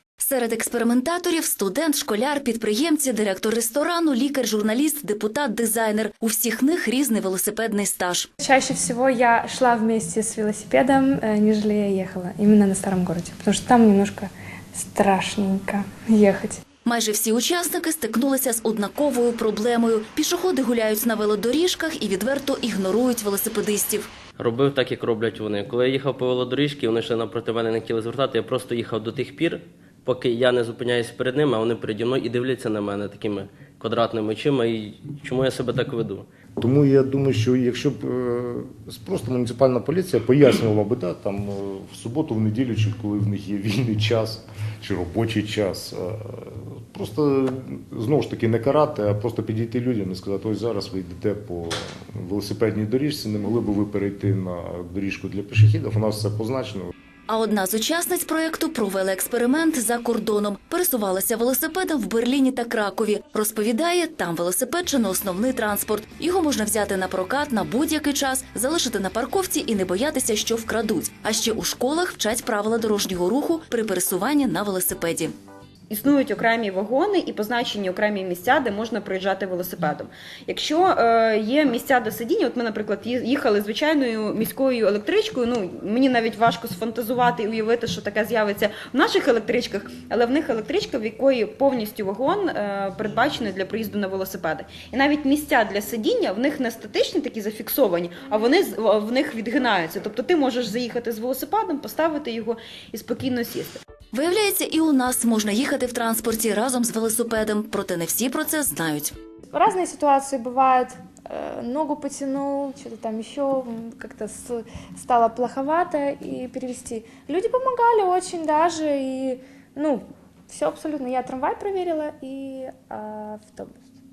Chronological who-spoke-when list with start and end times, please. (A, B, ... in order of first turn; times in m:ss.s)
0:00.2-0:08.3 A
0:08.4-0:16.6 B
0:16.8-0:24.1 A
0:24.4-0:36.2 C
0:36.6-0:56.9 D
0:57.3-1:15.4 A
1:15.9-1:43.8 E
1:44.1-1:49.2 A
1:49.5-2:03.9 B